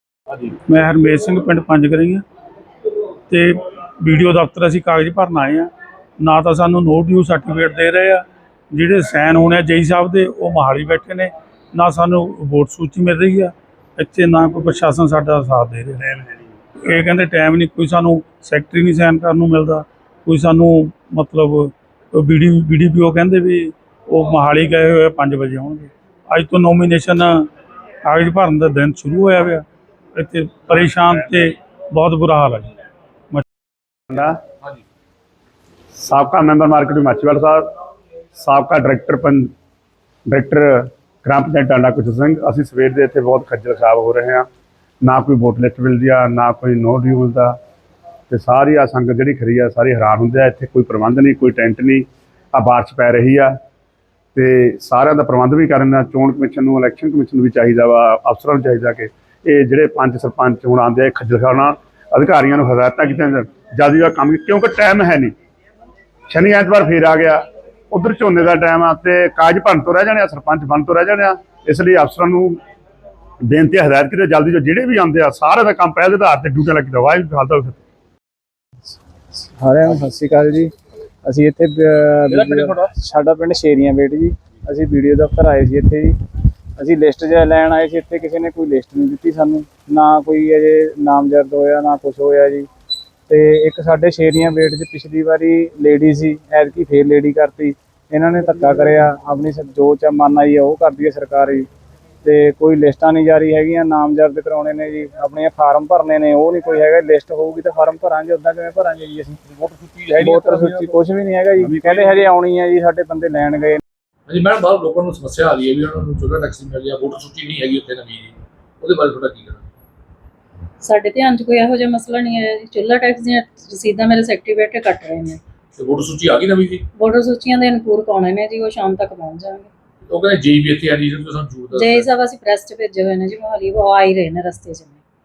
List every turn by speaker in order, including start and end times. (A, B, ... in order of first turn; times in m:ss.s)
0:00.7-0:02.2 A
0:03.3-0:27.5 A
0:28.0-0:32.7 A
0:34.1-0:34.4 B
0:35.9-0:37.7 B
0:38.3-0:39.5 B
0:40.3-0:44.5 B
0:45.0-0:47.6 B
0:48.3-0:53.6 B
0:54.3-1:05.3 B
1:06.3-1:12.6 B
1:13.4-1:17.8 B
1:19.4-1:20.7 C
1:21.2-1:26.2 C
1:22.3-1:22.9 D
1:26.8-1:32.7 C
1:33.3-1:41.7 C
1:42.2-1:49.4 C
1:49.4-1:51.0 D
1:50.1-1:53.8 C
1:51.6-1:52.2 D
1:54.3-1:59.7 D
2:00.8-2:05.4 E
2:05.8-2:06.9 D
2:07.0-2:09.7 E
2:10.1-2:12.1 D
2:11.7-2:15.0 E